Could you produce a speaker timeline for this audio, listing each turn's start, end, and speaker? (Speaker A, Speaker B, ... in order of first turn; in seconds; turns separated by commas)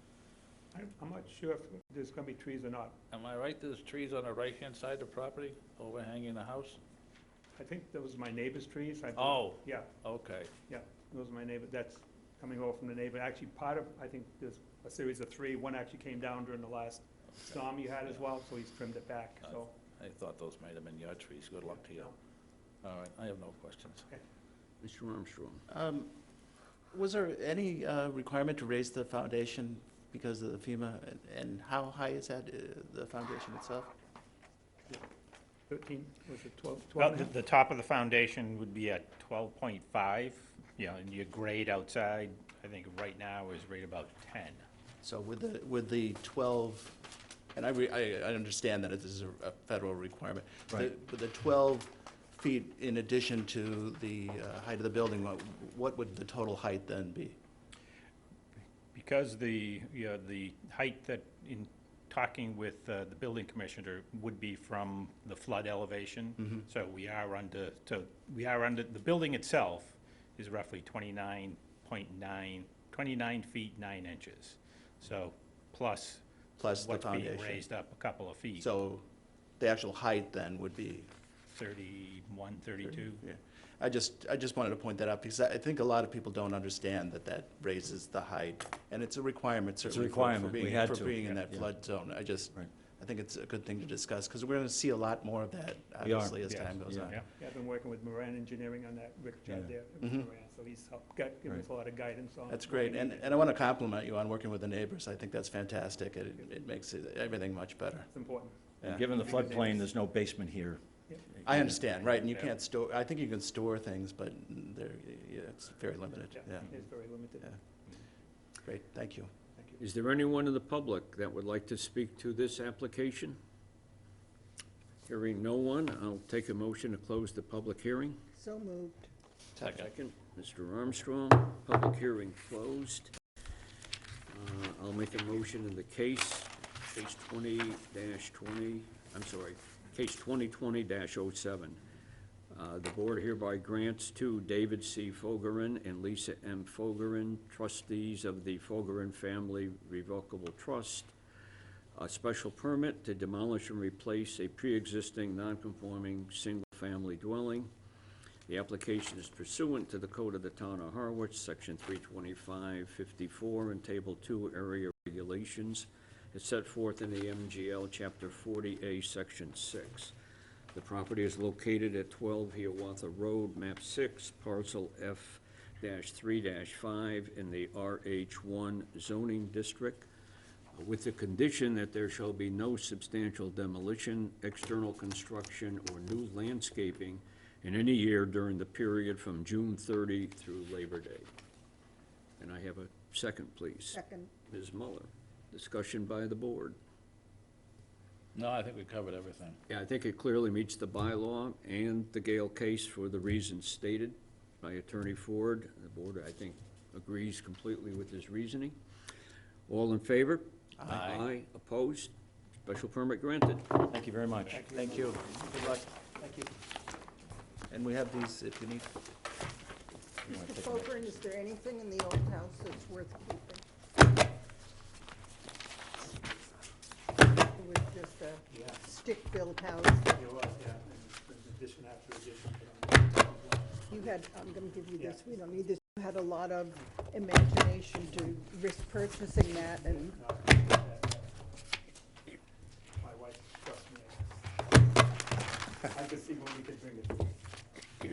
Speaker A: 0.7-3.0, Speaker B: 3.1-6.8, Speaker A: 7.6-9.9, Speaker B: 9.2-10.5, Speaker A: 10.7-19.7, Speaker B: 17.4-18.2, Speaker B: 19.4-22.1, Speaker A: 21.6-22.1, Speaker B: 22.8-24.1, Speaker C: 24.8-25.6, Speaker D: 25.7-26.1, Speaker D: 26.9-33.9, Speaker A: 35.7-37.3, Speaker E: 37.0-44.6, Speaker D: 45.0-47.0, Speaker D: 47.5-57.4, Speaker E: 59.0-78.7, Speaker D: 76.6-77.7, Speaker D: 78.6-79.1, Speaker D: 79.6-81.1, Speaker E: 81.5-83.2, Speaker D: 82.9-97.2, Speaker F: 89.8-91.7, Speaker F: 96.0-97.2, Speaker E: 96.4-97.3, Speaker A: 97.3-103.5, Speaker F: 99.5-99.7, Speaker D: 100.0-100.3, Speaker D: 102.5-108.1, Speaker A: 108.1-109.9, Speaker D: 108.8-109.3, Speaker F: 108.8-110.8, Speaker F: 111.4-111.8, Speaker D: 111.4-116.7, Speaker E: 112.1-112.5, Speaker A: 116.3-117.6, Speaker D: 118.6-119.3, Speaker A: 119.5-119.8, Speaker C: 119.8-123.4, Speaker C: 125.1-128.2, Speaker G: 128.3-129.1, Speaker C: 129.6-133.1, Speaker B: 129.6-129.9, Speaker C: 134.3-141.8, Speaker C: 142.5-151.1, Speaker C: 152.0-157.7, Speaker C: 158.5-170.1, Speaker C: 170.7-180.1, Speaker C: 180.8-191.3, Speaker C: 192.4-196.8, Speaker G: 193.9-194.3, Speaker B: 198.3-199.6, Speaker C: 199.7-208.8, Speaker C: 209.7-212.1, Speaker D: 210.8-211.2, Speaker C: 212.7-213.7, Speaker F: 213.9-215.8, Speaker A: 214.5-216.5, Speaker D: 217.7-218.9, Speaker G: 220.2-223.6, Speaker F: 220.3-221.2, Speaker G: 227.4-230.2, Speaker A: 228.5-228.8, Speaker A: 230.1-234.1, Speaker G: 233.9-240.2, Speaker A: 239.5-241.6, Speaker A: 243.0-244.5, Speaker A: 245.9-247.4